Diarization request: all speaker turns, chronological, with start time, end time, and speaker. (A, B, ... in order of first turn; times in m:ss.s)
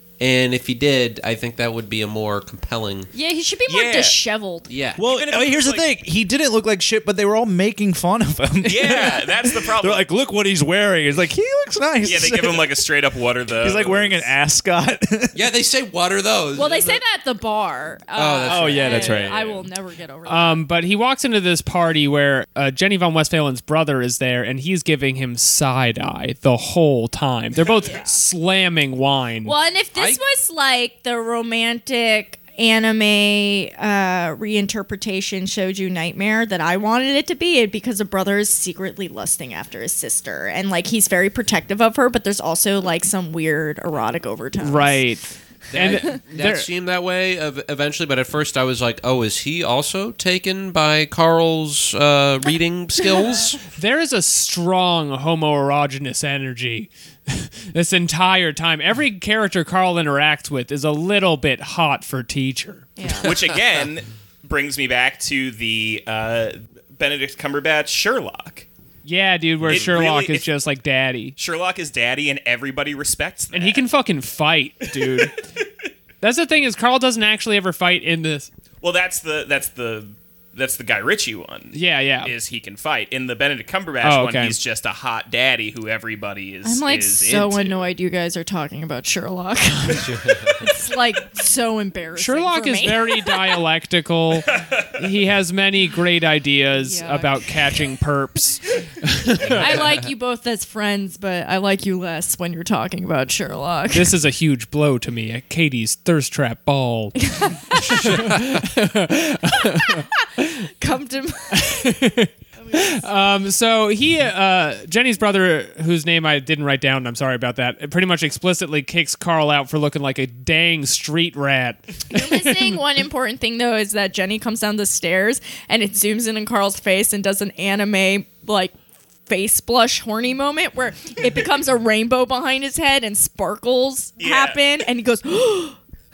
0:00.2-0:03.1 A
0:03.1-0:04.7 B
0:03.7-0:04.2 C
0:04.7-0:05.0 A
0:05.0-0:12.8 D
0:05.0-0:05.8 C
0:08.6-0:10.1 C
0:12.0-0:14.3 C
0:13.6-0:15.4 D
0:15.3-0:17.0 A
0:16.5-0:20.6 B
0:18.1-0:19.3 A
0:18.4-0:19.6 D
0:20.2-0:29.5 E
0:27.8-0:28.2 B
0:29.4-0:45.0 B
0:29.9-0:30.2 A
0:44.6-0:46.7 E
0:45.7-0:53.6 A
0:53.7-1:03.0 E
1:03.0-1:03.3 B
1:03.2-1:08.6 C
1:09.0-1:11.4 E
1:09.7-1:10.4 C
1:11.4-1:13.8 C
1:13.5-1:15.4 E
1:15.0-1:15.3 C
1:16.2-1:18.5 E
1:18.8-1:27.9 C
1:21.7-1:22.3 E
1:24.0-1:24.6 E
1:26.6-1:33.6 B
1:29.9-1:30.6 A
1:32.2-1:39.6 E
1:34.5-1:34.8 C
1:36.8-1:37.5 B
1:39.4-1:44.1 B
1:39.4-1:39.9 A
1:43.9-1:47.2 E
1:47.3-1:48.1 B
1:47.7-1:50.5 E
1:49.7-1:50.2 B
1:50.8-1:51.9 B
1:51.5-2:02.7 E
1:52.6-1:53.0 B
2:02.1-2:08.7 B
2:09.3-2:15.8 B
2:14.2-2:14.6 C